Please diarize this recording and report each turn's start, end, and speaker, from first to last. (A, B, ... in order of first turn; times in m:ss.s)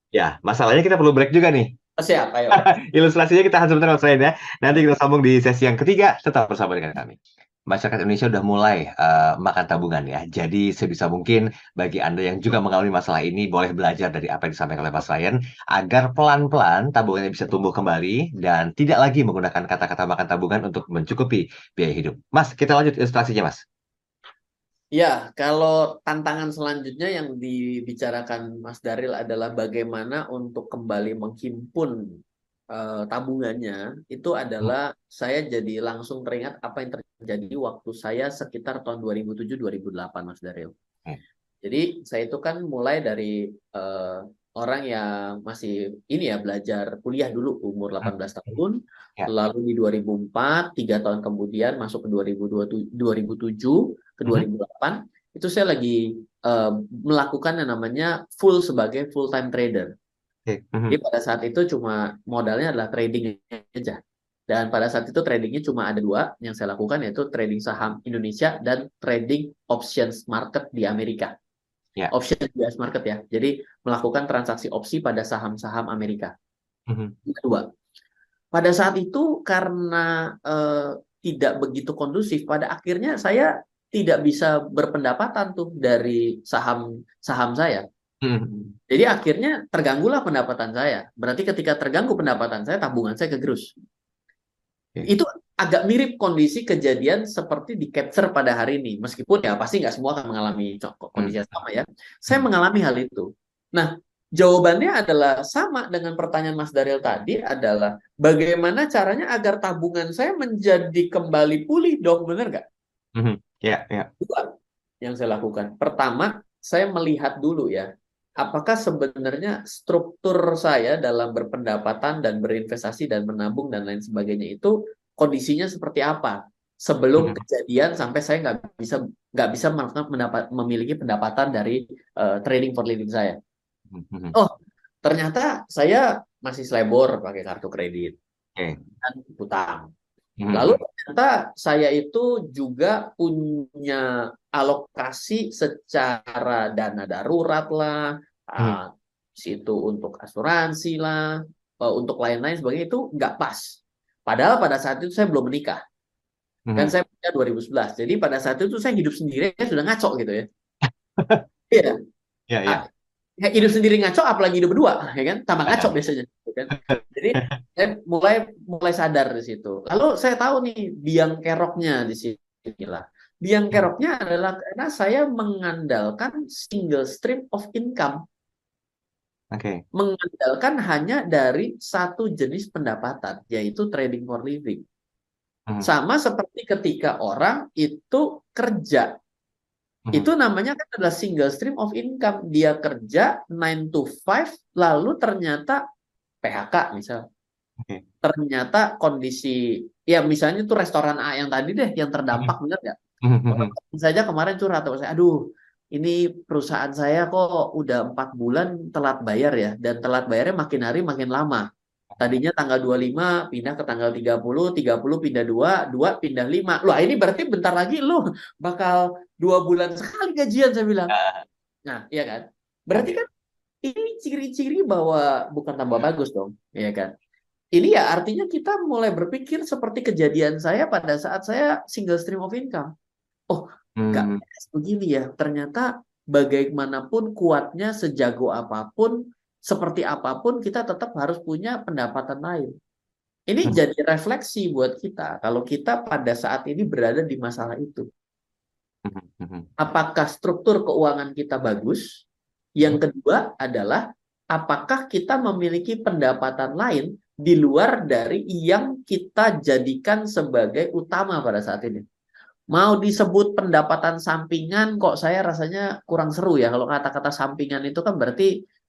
0:00.1-0:01.7 A
0:02.0-0:02.6 B
0:02.5-0:23.6 A
0:24.9-0:31.9 B
0:32.7-0:40.7 B
0:41.6-0:48.8 B
0:49.3-0:59.9 B
1:00.5-1:01.0 A
1:00.9-1:04.0 B
1:04.5-1:11.3 B
1:12.1-1:16.3 B
1:16.9-1:17.1 A
1:17.3-1:17.6 B
1:18.5-1:27.8 B
1:28.2-1:28.7 A
1:28.9-1:33.7 B
1:35.0-1:52.6 B
1:41.2-1:41.4 A
1:53.2-1:54.1 A
1:54.2-1:54.5 B
1:55.0-1:57.9 B
1:58.4-2:13.4 B
2:13.9-2:14.3 A
2:15.0-2:18.1 B
2:19.0-2:19.9 B
2:20.4-2:20.8 A
2:20.5-2:24.0 B
2:24.5-2:35.8 B
2:36.7-2:36.9 A
2:36.8-2:40.4 B
2:40.8-2:41.4 A
2:42.5-2:42.8 A
2:43.4-2:58.2 B
2:46.7-2:47.6 A
2:59.5-2:59.8 A
3:00.0-3:04.8 B
3:05.8-3:09.1 B
3:10.1-3:15.8 B
3:16.4-3:17.2 B
3:18.2-3:19.6 B
3:20.1-3:23.0 B
3:23.2-3:23.7 A
3:23.5-3:25.4 B
3:25.9-3:31.6 B
3:32.1-3:32.4 A
3:32.2-3:41.1 B
3:41.1-3:41.4 A
3:41.9-3:43.3 B
3:42.9-3:43.2 A
3:43.8-3:47.1 B
3:47.8-3:52.9 B
3:53.5-3:59.2 B
3:54.0-3:54.4 A
3:59.7-4:02.7 B
4:03.5-4:08.0 B
4:09.0-4:09.7 A
4:09.8-4:12.2 B
4:12.8-4:14.0 B
4:14.5-4:22.0 B
4:22.7-4:28.5 B